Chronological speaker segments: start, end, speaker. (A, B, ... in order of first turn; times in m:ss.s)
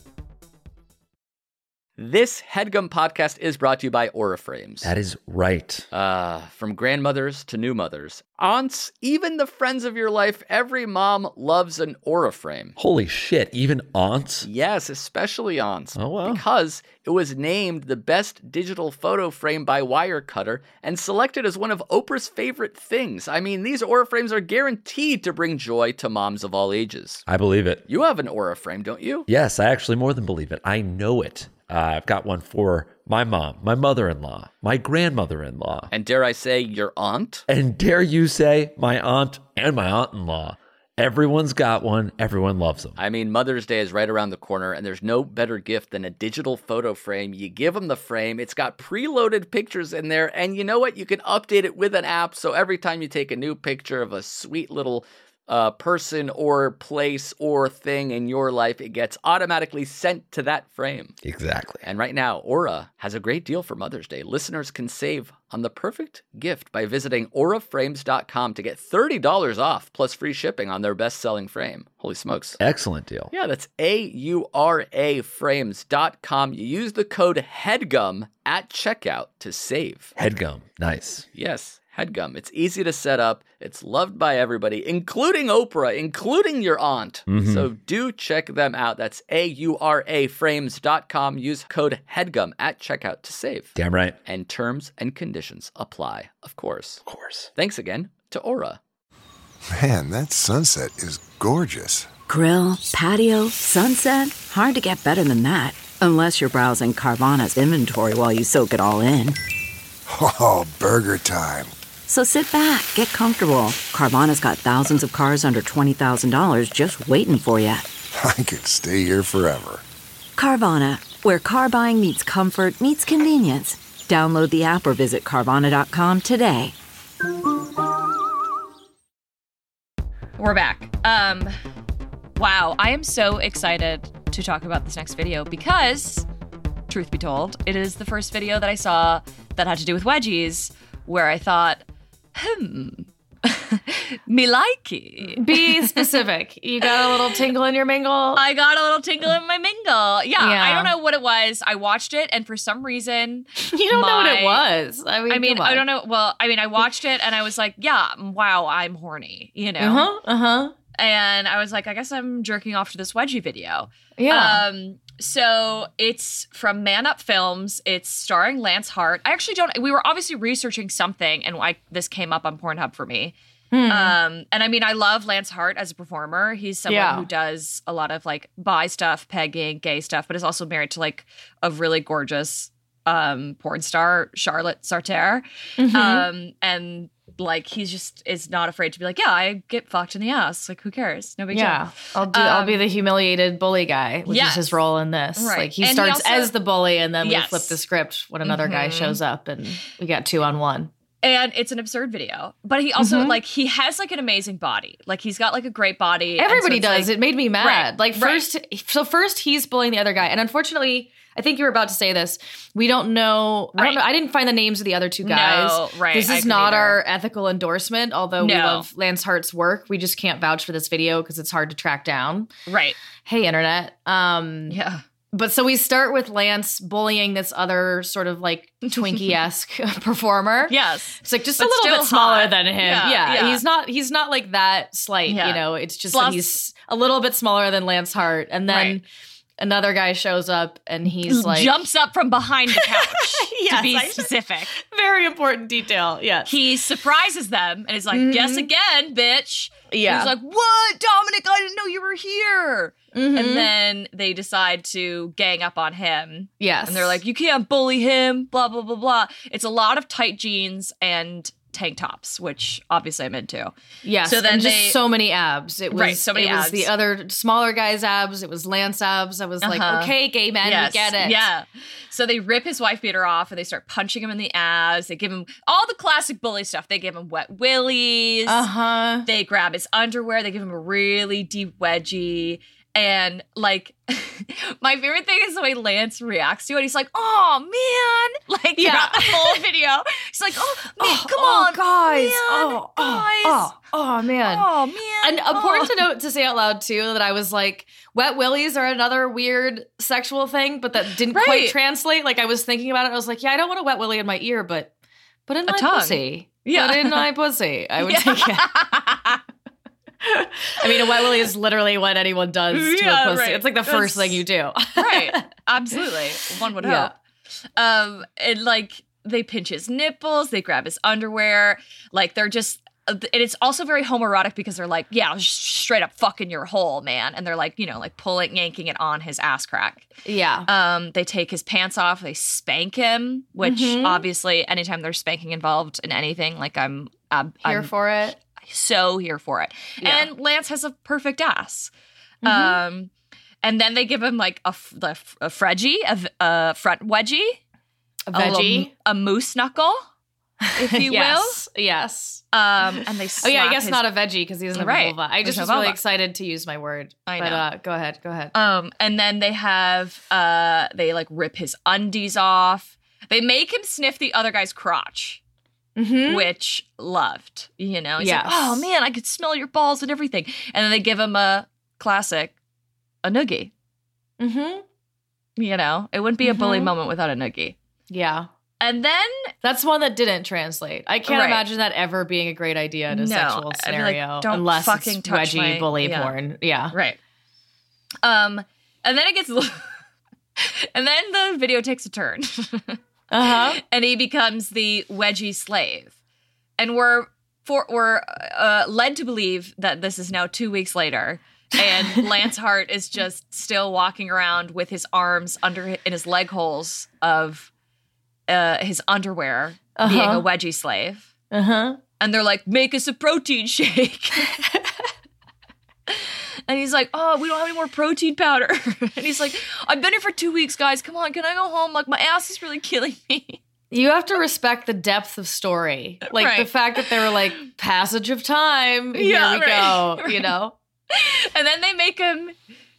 0:02.0-0:04.9 A
0:04.8-0:05.8 B
0:05.9-0:12.7 A
0:12.8-0:14.4 B
0:14.4-0:27.2 A
0:15.9-0:16.4 B
0:27.2-0:27.8 B
0:27.9-0:29.3 A
0:29.3-0:35.9 B
0:35.9-0:37.4 A
0:37.5-0:43.0 B
0:43.0-1:01.2 A
1:01.2-1:01.8 B
1:01.8-1:12.6 A
1:12.6-1:13.3 B
1:13.3-1:20.1 A
1:20.2-1:21.2 B
1:21.3-1:37.0 A
1:27.3-1:27.6 B
1:33.8-1:34.2 B
1:37.0-1:37.5 B
1:37.5-1:38.8 A
1:39.7-1:42.1 C
1:42.3-1:49.4 D
1:50.1-1:51.7 C
1:52.1-1:57.8 D
1:58.1-1:59.8 C
2:00.4-2:06.7 D
2:10.4-2:11.5 E
2:12.4-2:16.2 E
2:16.9-2:21.8 E
2:22.3-2:26.2 E
2:25.3-2:28.4 F
2:26.8-2:27.4 E
2:28.4-2:34.6 E
2:30.4-2:30.9 F
2:33.6-2:35.8 F
2:35.3-2:40.1 E
2:39.8-2:40.7 F
2:41.0-2:53.3 E
2:44.2-2:44.6 F
2:53.7-2:54.2 F
2:53.9-3:12.8 E
2:56.9-2:57.3 F
3:05.8-3:06.3 F
3:11.5-3:20.9 F
3:14.3-3:14.8 E
3:15.4-3:16.5 E
3:17.2-3:17.8 E
3:18.4-3:19.2 E
3:21.2-3:28.4 E
3:23.0-3:23.4 F
3:26.4-3:42.5 F
3:33.8-3:34.0 E
3:35.2-3:37.0 E
3:38.4-3:38.9 E
3:42.7-3:43.0 E
3:43.2-3:44.8 F
3:44.7-3:45.0 E
3:45.3-3:59.0 F
3:48.9-3:49.3 E
3:50.7-3:53.6 E
3:55.3-3:56.6 E
3:58.7-3:59.0 E
3:59.6-4:01.7 F
4:01.2-4:04.7 E
4:02.7-4:06.5 F
4:06.4-4:23.7 E
4:08.1-4:08.7 F
4:09.9-4:10.3 F
4:13.1-4:13.7 F
4:16.6-4:17.2 F
4:24.0-4:31.5 F
4:24.2-4:25.0 E
4:25.9-4:26.9 E
4:29.6-4:38.7 E
4:38.5-4:39.3 F
4:39.2-4:53.7 E
4:48.8-4:49.6 F
4:51.0-4:54.7 F
4:54.4-4:56.1 E
4:55.2-5:04.9 F
5:01.3-5:01.8 E
5:05.5-5:08.8 F
5:05.7-5:07.3 E
5:08.0-5:09.4 E
5:10.2-5:15.4 F
5:10.8-5:11.5 E
5:12.7-5:14.4 E
5:15.0-5:17.1 E
5:16.8-5:17.1 F
5:17.8-5:30.1 E
5:30.2-5:30.7 F
5:30.6-5:37.9 E
5:33.6-5:34.2 F
5:37.6-5:38.4 F
5:38.6-5:41.9 E
5:40.0-5:40.3 F
5:42.4-5:42.8 F
5:42.4-5:43.1 E
5:43.6-5:47.6 E
5:48.3-5:48.9 F
5:48.3-5:50.0 E
5:50.6-5:52.4 F
5:50.8-5:51.6 E
5:52.5-5:54.1 E
5:53.0-5:58.5 F
5:54.7-5:56.0 E
5:57.3-5:57.6 E
5:58.5-6:05.4 E
6:06.0-6:06.5 F
6:06.3-6:12.5 E
6:08.2-6:08.8 F
6:13.2-6:13.7 E
6:14.4-6:14.8 F
6:15.6-6:17.8 E
6:16.4-6:16.9 F
6:18.1-6:18.5 F
6:18.8-6:19.5 E
6:19.6-6:26.9 F
6:21.3-6:21.6 E
6:23.1-6:26.4 E
6:26.9-6:27.2 E
6:28.2-6:29.9 E
6:30.6-6:33.0 E
6:33.3-6:33.8 F
6:33.8-6:36.1 E
6:36.8-6:47.7 E
6:48.5-6:51.3 E
6:50.0-6:50.4 F
6:51.5-6:52.0 F
6:52.2-6:54.6 E
6:56.1-7:03.6 E
7:03.9-7:10.8 F
7:06.3-7:06.7 E
7:09.1-7:10.5 E
7:11.1-7:12.5 E